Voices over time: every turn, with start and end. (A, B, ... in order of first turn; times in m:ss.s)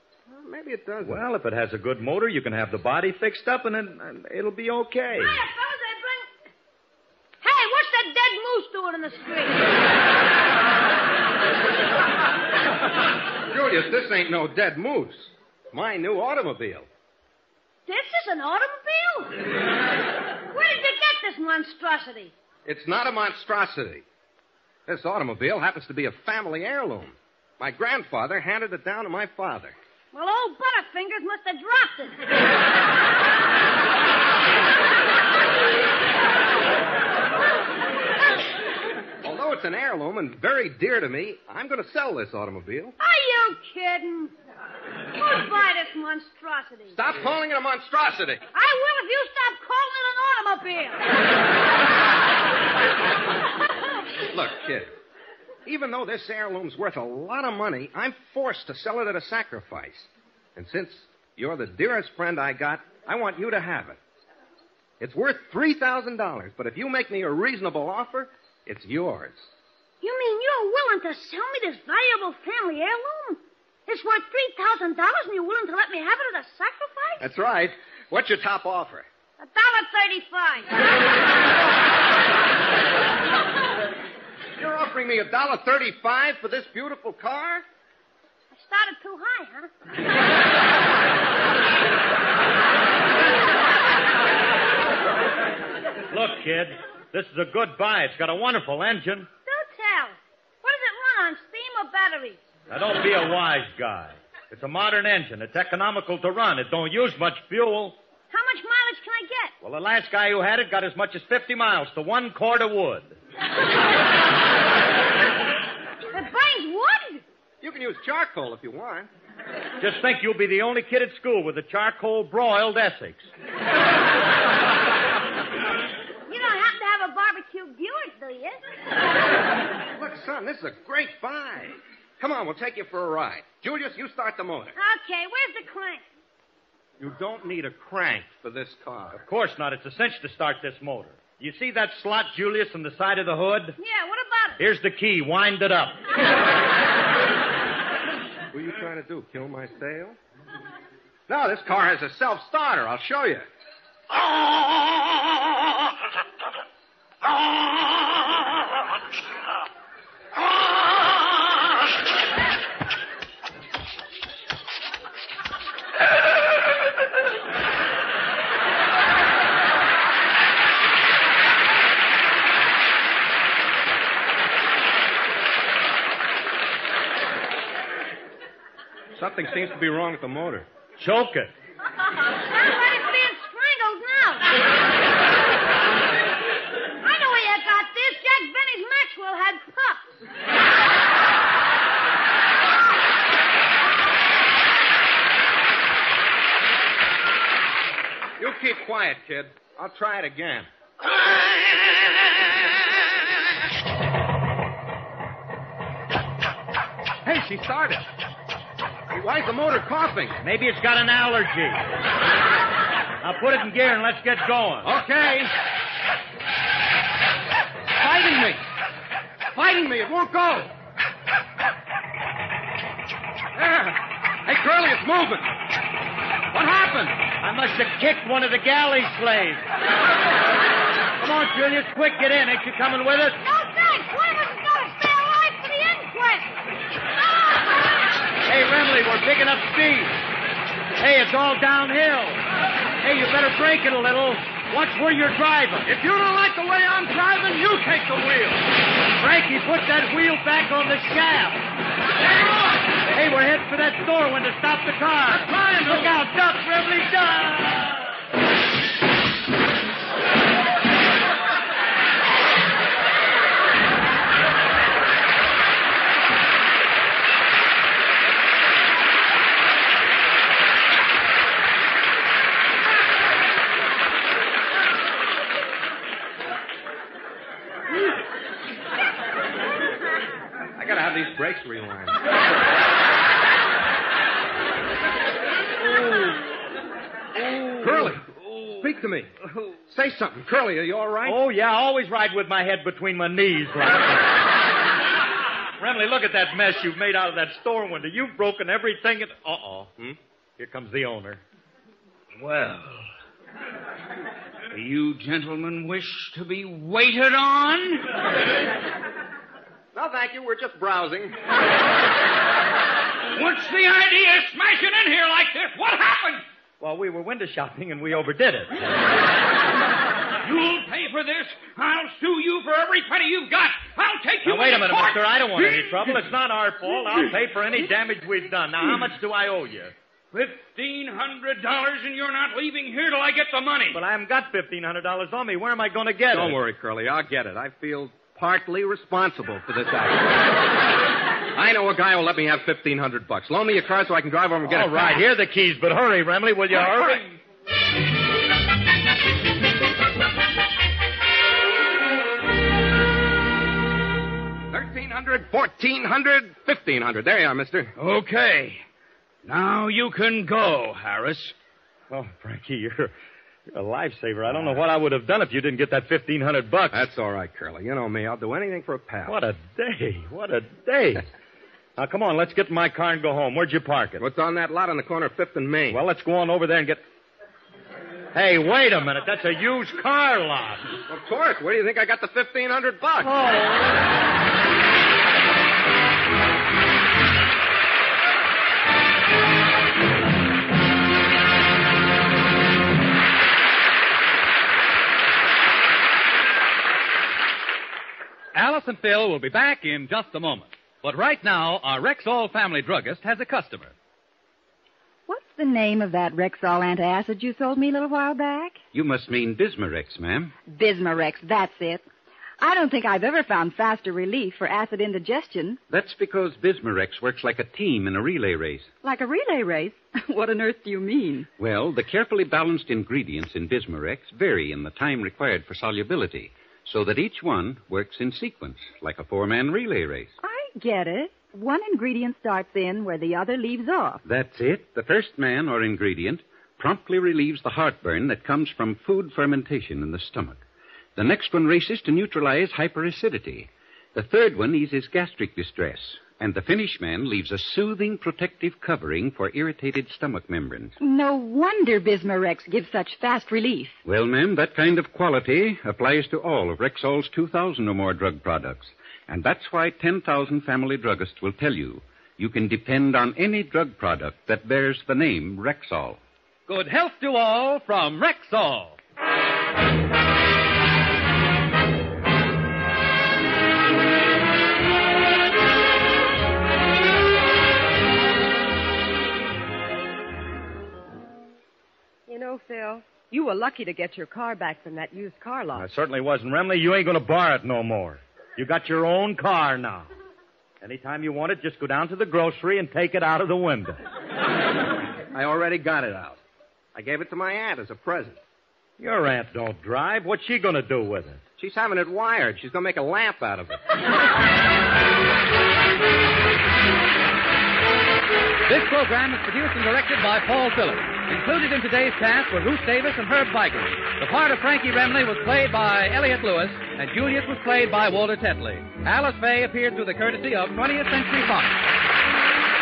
0:00.3-0:01.2 A
0:01.0-0:05.4 B
0:05.2-0:06.3 C
0:07.4-0:09.9 C
0:13.5-0:16.9 A
0:17.9-0:19.6 C
0:20.5-0:22.3 C
0:22.7-0:24.0 A
0:24.9-0:29.8 A
0:30.1-0:32.4 C
0:39.2-0:43.0 A
0:43.0-0:44.4 C
0:45.1-0:47.0 C
0:46.9-0:48.4 A
0:48.5-0:51.1 C
0:54.3-0:54.9 A
0:55.7-1:04.0 A
1:05.0-1:09.5 A
1:10.0-1:17.3 C
1:17.2-1:19.1 A
1:19.4-1:20.9 C
1:24.6-1:27.6 A
1:28.5-1:29.7 C
1:36.1-1:39.3 B
1:39.5-1:42.4 C
1:42.7-1:48.0 B
1:48.3-1:49.5 C
1:49.6-1:53.2 B
1:56.1-1:57.2 C
1:57.6-1:59.1 A
1:59.8-2:03.3 B
2:06.3-2:08.6 C
2:09.9-2:14.8 A
2:14.8-2:16.0 C
2:17.0-2:19.2 A
2:19.2-2:23.8 B
2:23.8-2:24.6 C
2:24.6-2:26.0 B
2:28.5-2:30.2 A
2:31.3-2:33.5 A
2:59.2-3:00.7 A
3:01.0-3:01.5 B
3:02.5-3:04.6 C
3:07.0-3:10.1 C
3:18.4-3:20.7 A
3:27.2-3:28.1 A
3:29.1-3:30.4 A
3:30.4-3:31.8 B
3:33.2-3:34.9 B
3:34.8-3:35.5 A
3:38.0-3:38.7 A
3:39.5-3:40.7 A
3:43.6-3:45.5 A
3:46.5-3:47.2 A
3:47.4-3:49.7 B
3:51.2-3:53.4 B
3:53.4-3:56.6 C
3:57.4-3:57.7 C
3:58.5-4:00.2 B
4:01.0-4:02.4 B
4:03.0-4:05.9 B
4:05.8-4:08.6 A
4:09.2-4:11.6 B
4:13.1-4:18.1 B
4:40.8-4:42.2 A
4:47.7-4:48.2 A
4:48.8-4:51.4 A
4:51.2-4:54.3 B
4:55.8-4:59.9 B
5:00.6-5:01.4 B
5:02.4-5:03.1 D
5:04.7-5:08.1 D
5:09.9-5:11.4 A
5:13.3-5:16.4 D
5:16.8-5:18.8 B
5:20.4-5:26.2 D
5:24.4-5:29.9 B
5:30.3-5:34.0 D
5:33.9-5:36.6 B
5:36.3-5:40.5 A
5:41.5-5:45.2 A
5:44.7-5:47.2 B
5:54.7-5:57.9 A
5:58.0-5:58.8 D
5:59.4-6:01.6 D
6:02.1-6:03.1 B
6:03.7-6:07.1 B
6:06.9-6:09.4 A
6:09.3-6:11.2 B
6:12.0-6:14.2 B
6:14.2-6:16.0 A
6:15.9-6:17.0 B
6:18.3-6:20.9 B
6:21.1-6:23.4 A
6:23.3-6:23.9 B
6:38.6-6:43.9 E
6:45.3-6:48.8 F
6:48.9-6:50.5 G
6:50.7-6:52.0 F
6:52.6-6:55.8 F
6:55.9-6:58.9 G
6:59.0-7:01.5 F
7:01.6-7:10.3 G
7:10.4-7:14.2 F
7:14.2-7:20.6 G
7:21.2-7:31.0 G
7:31.0-7:34.0 F
7:34.0-7:46.2 G
7:46.7-7:49.0 E
8:02.3-8:05.9 H
8:05.8-8:10.1 B
8:10.8-8:14.0 B
8:15.3-8:16.4 A
8:17.0-8:18.4 A
8:19.0-8:21.4 B
8:21.6-8:23.8 A
8:28.7-8:41.8 E